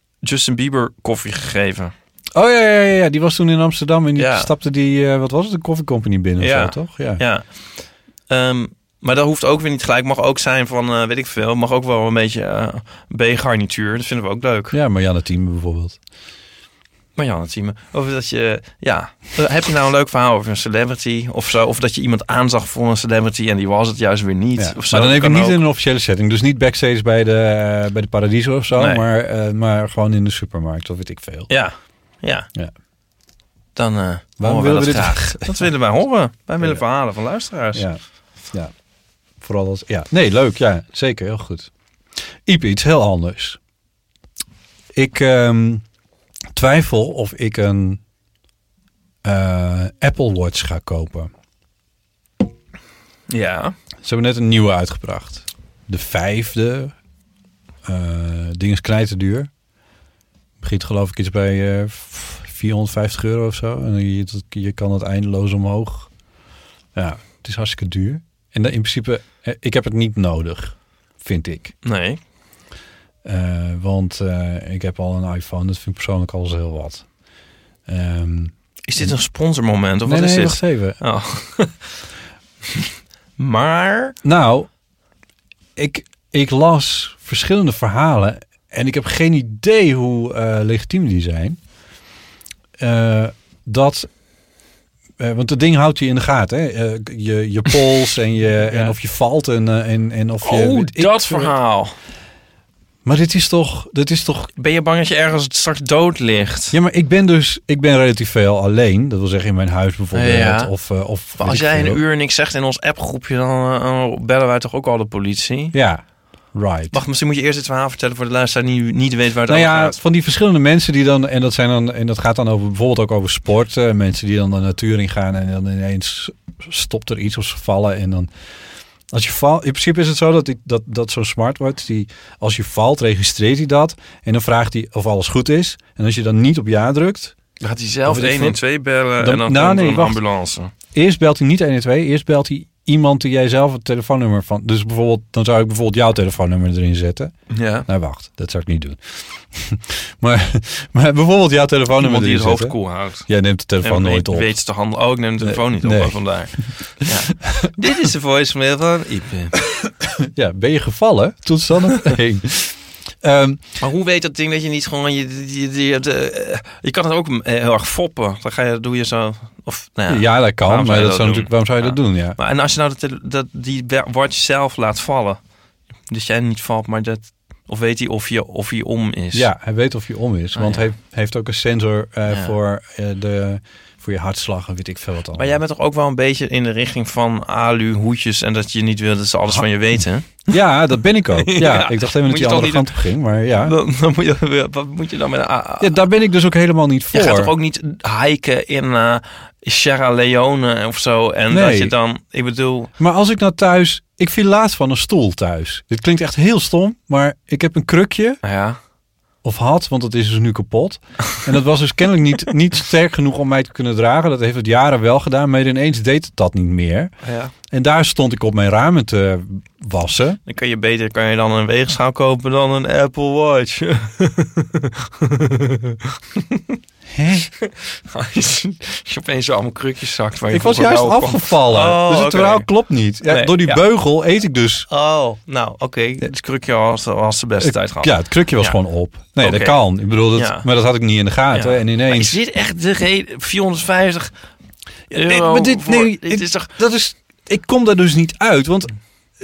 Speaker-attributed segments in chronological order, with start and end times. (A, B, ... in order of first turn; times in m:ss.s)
0:00.2-0:01.9 A
0:02.4-0:07.2 B
0:04.2-0:04.5 A
0:06.4-0:07.5 A
0:08.3-0:14.8 A
0:14.7-0:16.0 B
0:17.2-0:25.6 A
0:24.6-0:31.5 B
0:28.8-0:29.0 A
0:31.5-0:32.5 A
0:33.8-0:37.9 A
0:34.4-0:35.7 B
0:37.7-0:38.7 B
0:39.4-0:41.7 B
0:42.4-0:43.6 B
0:44.9-0:45.8 B
0:46.5-0:48.0 B
0:49.2-0:51.3 B
0:53.3-0:53.7 A
0:54.0-0:56.9 B
0:57.8-0:59.5 B
1:00.6-1:06.1 B
1:07.0-1:11.8 B
1:11.8-1:12.2 A
1:13.2-1:17.1 B
1:17.9-1:19.2 B
1:18.9-1:21.9 A
1:20.0-1:21.0 B
1:22.7-1:24.2 A
1:24.2-1:24.7 B
1:25.8-1:31.6 B
1:32.8-1:34.1 B
1:35.2-1:41.5 B
1:38.7-1:38.9 A
1:40.4-1:41.9 A
1:43.0-1:44.5 B
1:44.6-1:46.8 A
1:46.7-1:52.0 B
1:50.1-1:50.7 A
1:51.4-1:55.8 A
1:55.7-1:57.0 B
1:56.9-2:00.0 A
1:59.5-2:08.3 B
2:09.1-2:17.4 B
2:17.6-2:20.7 A
2:18.1-2:18.6 B
2:19.2-2:20.2 B
2:20.9-2:34.5 B
2:27.5-2:27.9 A
2:32.0-2:33.3 A
2:33.8-2:39.6 A
2:35.4-2:36.7 B
2:37.4-2:37.7 B
2:39.6-2:43.6 B
2:43.8-2:55.4 A
2:50.1-2:52.4 B
2:56.1-2:59.5 A
2:59.3-3:05.6 B
3:00.6-3:00.9 A
3:02.3-3:02.5 A
3:05.4-3:10.5 A
3:10.4-3:13.8 B
3:11.4-3:13.1 A
3:13.6-3:16.0 A
3:15.8-3:17.5 B
3:17.1-3:22.9 A
3:21.5-3:21.9 B
3:23.0-3:28.4 B
3:28.4-3:28.8 A
3:29.4-3:37.1 B
3:37.2-3:37.5 A
3:37.7-3:40.4 B
3:40.5-3:46.8 A
3:47.1-3:47.5 B
3:47.6-3:52.7 A
3:50.5-3:54.9 B
3:53.2-3:53.8 A
3:54.9-3:58.8 A
3:57.6-4:02.4 B
3:59.4-3:59.8 A
4:00.3-4:00.7 A
4:01.5-4:04.3 A
4:05.1-4:06.7 A
4:05.2-4:08.9 B